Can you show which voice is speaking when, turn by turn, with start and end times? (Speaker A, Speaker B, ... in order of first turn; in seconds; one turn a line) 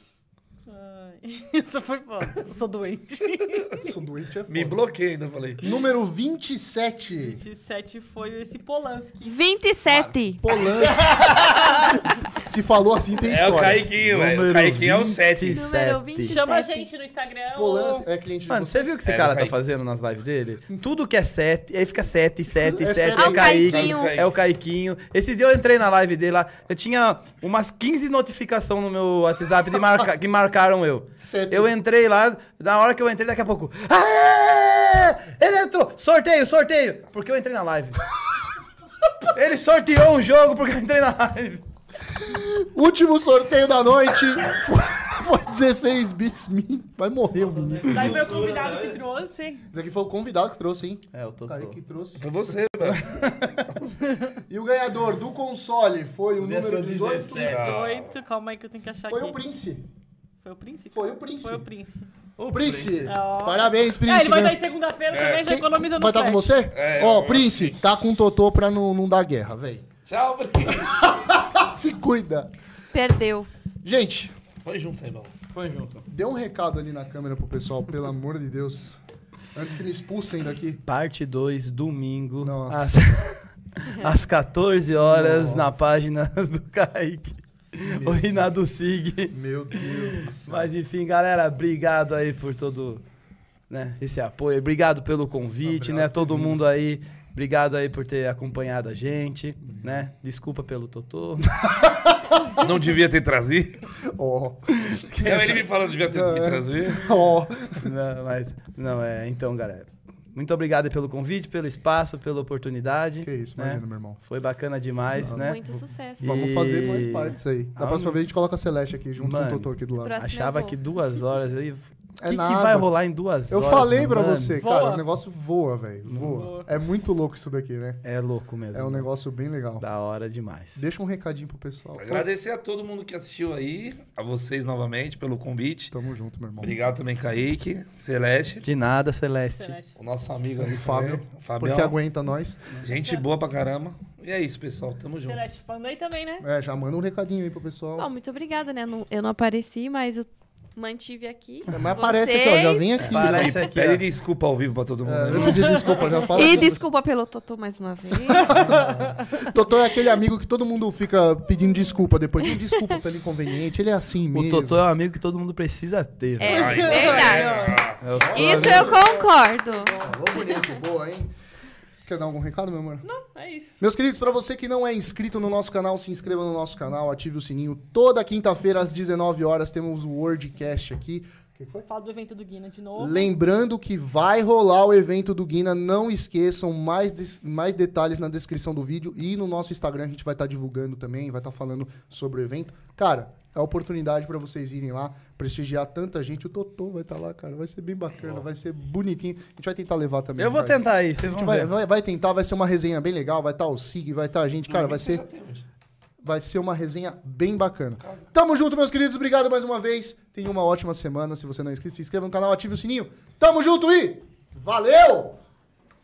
Speaker A: 0.7-3.9
Speaker B: 3.8-4.8
Speaker C: 4.5-5.6
Speaker B: 5.6-7.4
Speaker A: 7.2-9.4
Speaker D: 9.2-10.4
Speaker B: 10.4-13.8
Speaker E: 10.9-11.7
Speaker C: 13.2-15.6
Speaker E: 14.0-16.4
Speaker D: 15.5-16.9
Speaker A: 16.2-18.1
Speaker B: 17.6-19.0
Speaker E: 18.5-38.1
Speaker C: 19.1-19.6
Speaker B: 22.6-23.6
Speaker D: 23.1-24.2
Speaker C: 23.6-24.3
Speaker B: 31.2-31.7
Speaker E: 39.3-41.6
Speaker B: 42.2-48.0
Speaker E: 47.6-49.0
Speaker A: 47.8-49.6
Speaker B: 49.7-52.3
Speaker E: 51.1-51.8
Speaker C: 52.2-53.9
Speaker E: 52.8-53.5
Speaker B: 54.4-57.6
Speaker E: 56.4-57.8
Speaker A: 57.3-59.4
Speaker C: 57.4-58.1
Speaker B: 59.1-59.9
Speaker A: 60.4-62.1
Speaker B: 60.9-61.6
Speaker E: 62.4-63.1
Speaker B: 62.5-64.6
Speaker A: 63.1-66.5
Speaker C: 65.1-65.5
Speaker B: 65.4-69.9
Speaker C: 66.7-67.8
Speaker C: 70.1-71.1
Speaker B: 70.8-72.5
Speaker D: 72.9-73.5
Speaker B: 73.8-74.3
Speaker C: 74.7-75.3
Speaker E: 75.5-76.0
Speaker B: 76.1-79.0
Speaker B: 79.5-80.8
Speaker E: 80.9-93.0
Speaker B: 82.4-83.2
Speaker B: 85.0-85.8
Speaker B: 87.8-88.5
Speaker B: 89.3-90.7
Speaker E: 93.7-101.8
Speaker B: 95.7-96.6
Speaker B: 101.7-102.5
Speaker C: 102.5-103.8
Speaker B: 104.1-104.8
Speaker E: 104.8-105.6
Speaker C: 105.2-107.1
Speaker B: 106.1-107.9
Speaker E: 107.8-115.6
Speaker B: 113.2-114.2
Speaker B: 115.2-120.2
Speaker D: 115.2-116.3
Speaker E: 116.2-118.2
Speaker E: 119.2-124.6
Speaker D: 120.0-120.8
Speaker B: 122.2-122.9
Speaker B: 123.5-128.0
Speaker A: 124.6-125.1
Speaker E: 126.1-127.1
Speaker A: 126.3-126.7
Speaker E: 128.0-129.1
Speaker B: 128.7-129.8
Speaker E: 129.8-130.8
Speaker B: 130.8-132.3
Speaker C: 132.0-135.9
Speaker B: 135.9-136.8
Speaker C: 136.6-138.6
Speaker E: 138.6-139.8
Speaker A: 139.5-139.9
Speaker C: 140.0-141.9
Speaker B: 140.6-142.8
Speaker C: 142.8-145.4
Speaker A: 145.2-146.5
Speaker B: 146.4-148.1
Speaker D: 148.0-152.9
Speaker B: 151.7-153.7
Speaker E: 153.0-154.1
Speaker C: 153.0-156.1
Speaker B: 155.1-156.8
Speaker D: 156.3-158.8
Speaker B: 158.4-164.8
Speaker E: 164.3-166.9
Speaker D: 166.4-167.6
Speaker C: 166.5-168.0
Speaker A: 166.5-167.9
Speaker E: 168.0-169.0
Speaker B: 168.1-169.2
Speaker D: 168.3-170.0
Speaker A: 168.8-170.1
Speaker B: 170.0-171.3
Speaker B: 172.1-173.1
Speaker A: 173.0-173.8
Speaker B: 173.8-181.9
Speaker A: 181.9-183.3
Speaker B: 183.0-205.2
Speaker E: 200.4-201.7
Speaker C: 204.7-205.7
Speaker B: 206.2-215.4
Speaker C: 208.0-208.3